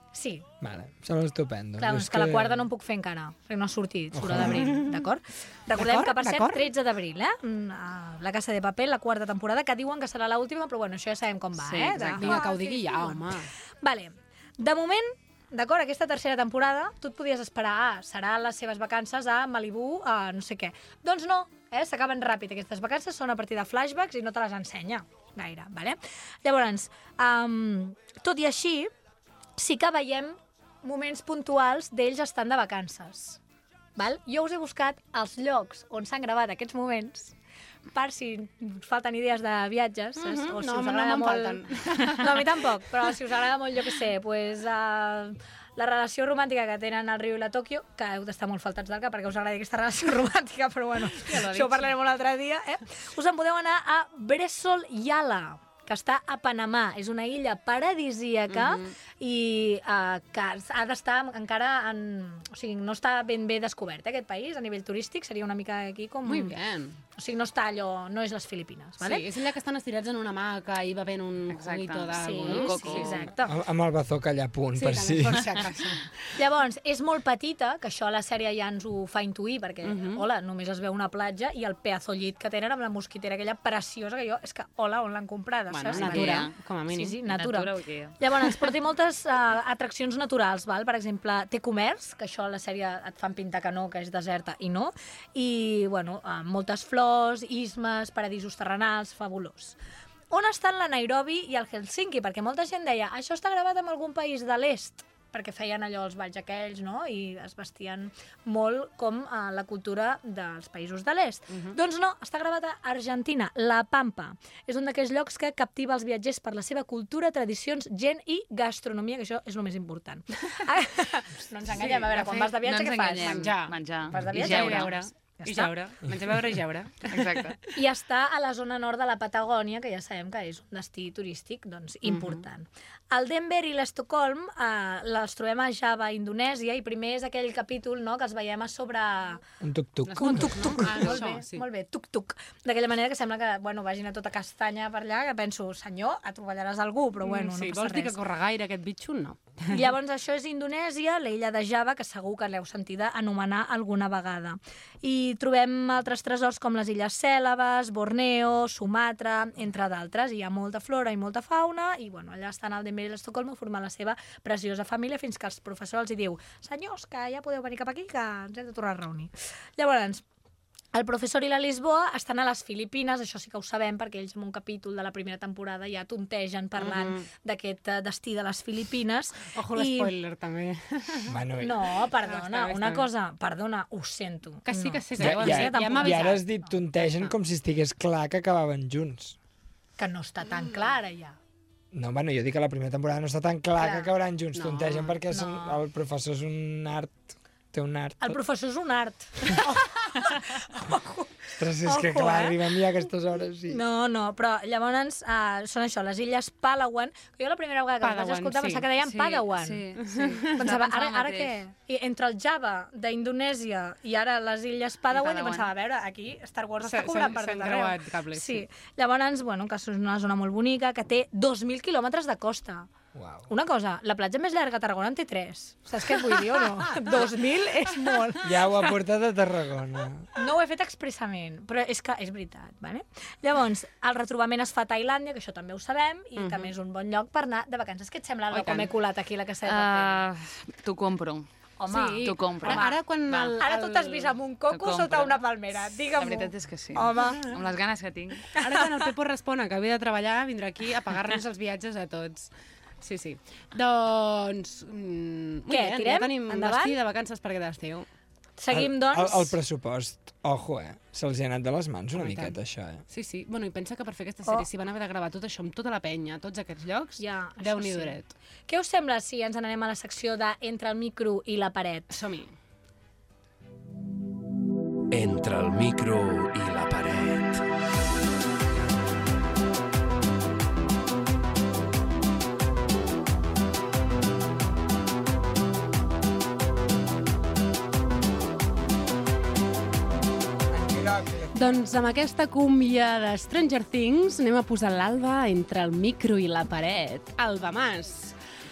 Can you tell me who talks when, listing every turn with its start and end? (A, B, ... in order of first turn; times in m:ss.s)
0:00.1-0:00.4 A
0:00.6-0:02.7 B
0:01.8-0:13.2 A
0:04.1-0:04.8 B
0:04.4-0:04.8 C
0:05.7-0:06.6 C
0:11.6-0:12.4 D
0:12.1-0:13.5 C
0:13.8-0:28.9 A
0:29.6-0:33.4 A
0:34.0-0:37.3 A
0:37.9-1:06.5 A
0:40.2-0:42.6 C
0:51.1-0:51.9 C
0:58.5-0:58.9 C
1:06.2-1:07.0 C
1:07.2-1:09.2 A
1:09.0-1:13.3 C
1:11.5-1:13.3 D
1:12.2-1:13.6 A
1:13.5-1:15.6 B
1:14.7-1:16.1 C
1:16.3-1:39.8 A
1:19.8-1:20.2 C
1:25.7-1:27.2 C
1:25.8-1:26.6 D
1:27.2-1:28.2 D
1:40.3-2:05.8 A
1:51.5-1:51.8 C
2:01.7-2:07.5 C
2:02.6-2:05.0 D
2:07.1-2:07.6 D
2:07.7-2:19.4 A
2:12.0-2:12.4 C
2:19.6-2:20.9 B
2:20.1-2:21.6 C
2:20.1-2:28.2 A
2:27.2-2:29.9 C
2:29.7-2:50.2 A
2:50.9-3:00.1 A
2:56.8-2:57.2 C
2:59.5-3:01.4 C
3:01.3-3:01.9 B
3:01.6-3:06.7 A
3:02.2-3:03.1 C
3:04.6-3:06.4 C
3:05.2-3:09.4 B
3:07.0-3:07.3 C
3:10.0-3:11.4 A
3:11.9-3:18.4 B
3:13.8-3:14.1 A
3:14.5-3:15.2 C
3:15.3-3:15.8 A
3:18.2-3:22.6 A
3:21.6-3:23.8 B
3:23.7-3:29.9 A
3:28.0-3:28.9 C
3:29.0-3:31.6 D
3:30.0-3:30.6 C
3:30.5-3:42.9 A
3:35.1-3:35.7 D
3:36.8-3:38.6 C
3:43.1-3:43.5 B
3:43.5-3:48.7 A
3:48.4-3:50.3 B
3:50.4-4:00.2 A
3:56.4-3:56.7 C
3:58.5-3:58.9 C
3:59.6-4:01.5 D
4:01.8-4:03.0 A
4:01.9-4:04.3 C
4:02.2-4:03.6 D
4:03.6-4:07.5 A
4:04.7-4:05.4 D
4:06.2-4:08.5 D
4:07.2-4:07.6 C
4:08.5-4:08.8 A
4:08.5-4:18.1 C
4:15.7-4:17.0 A
4:18.6-4:19.6 A
4:18.7-4:23.0 B
4:22.2-4:22.5 C
4:23.1-4:28.3 C
4:27.2-4:28.2 A
4:28.7-4:32.2 A
4:32.1-4:32.5 C
4:35.1-4:37.6 E
4:50.7-4:51.6 B
4:51.5-4:58.3 C